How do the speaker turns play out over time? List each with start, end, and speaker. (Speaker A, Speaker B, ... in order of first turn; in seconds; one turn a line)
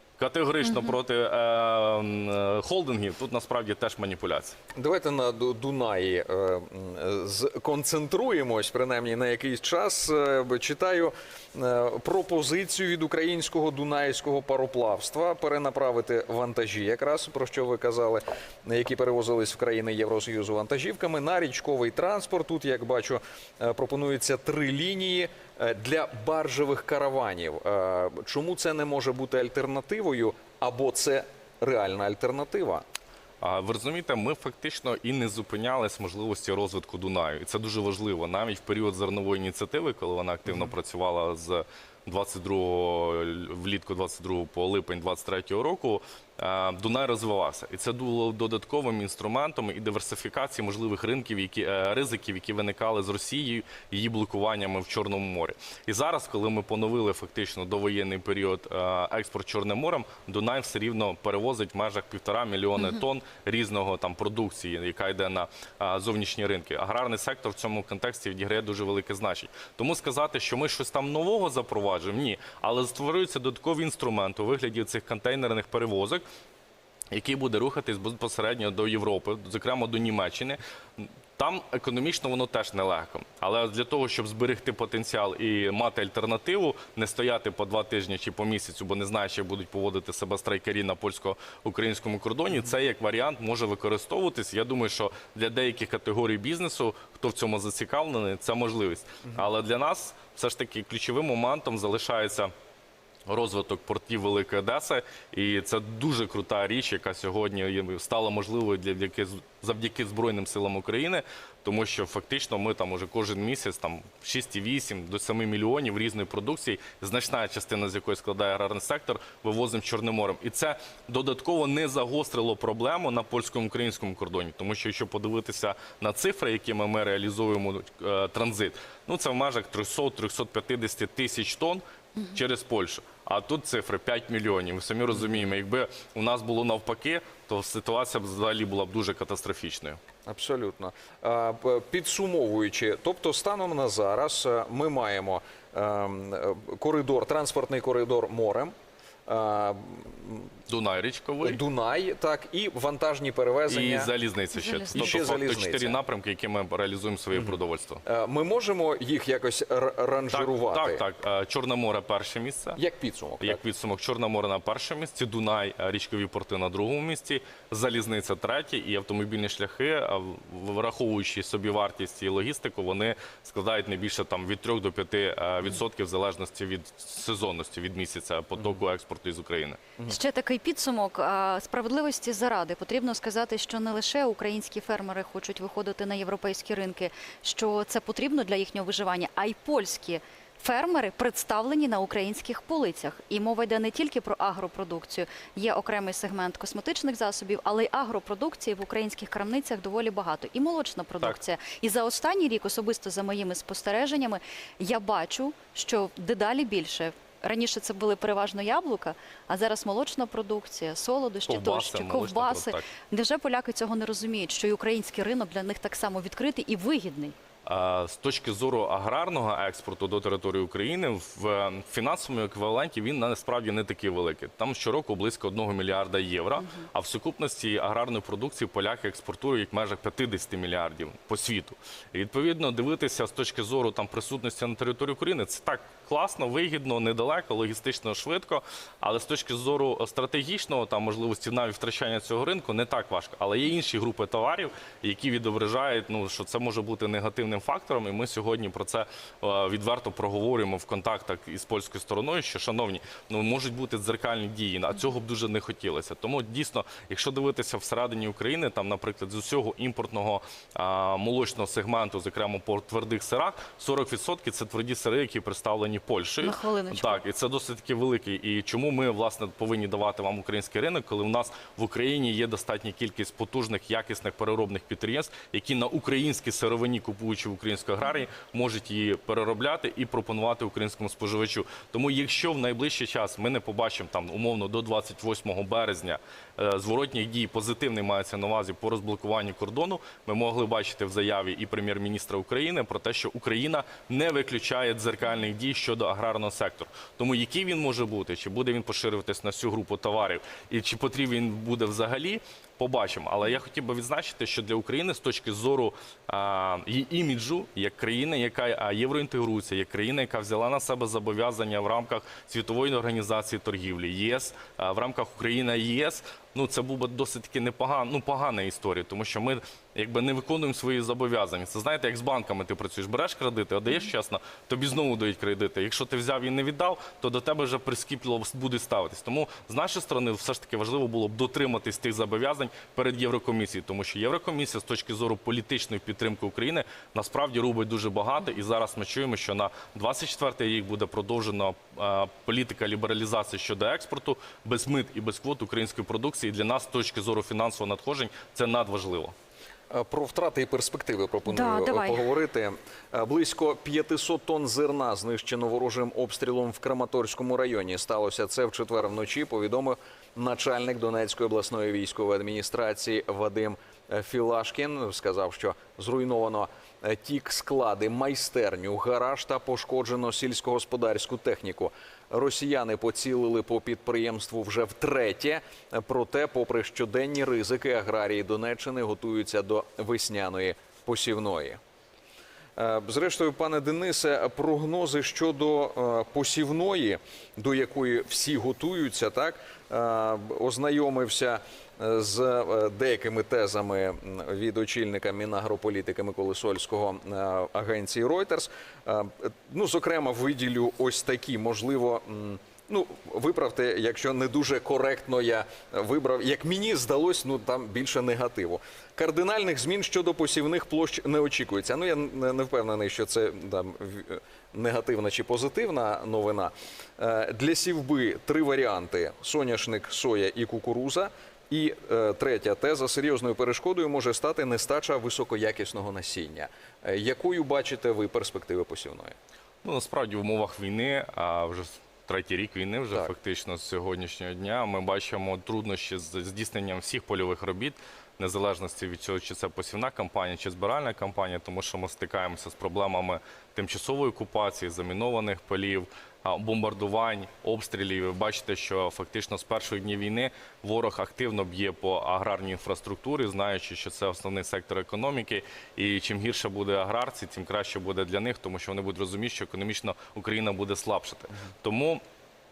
Speaker A: 0.2-4.6
Speaker B: 0.6-1.0
Speaker C: 4.8-32.9
Speaker A: 33.4-76.2
Speaker A: 77.1-102.5
Speaker A: 103.3-140.0
Speaker C: 140.3-148.7
Speaker C: 149.3-150.5
Speaker A: 150.7-151.6
Speaker C: 151.4-154.1
Speaker A: 153.7-158.0
Speaker B: 154.6-155.1
Speaker C: 154.9-156.0
Speaker C: 158.1-161.0
Speaker A: 160.3-162.8
Speaker C: 162.8-163.6
Speaker A: 163.4-179.8
Speaker B: 180.1-217.3
Speaker A: 211.5-212.8
Speaker A: 217.7-349.3
Speaker B: 226.6-226.9
Speaker B: 266.4-267.2
Speaker C: 349.9-381.8
Speaker B: 351.5-352.3
Speaker C: 382.8-429.4
Speaker A: 429.8-462.2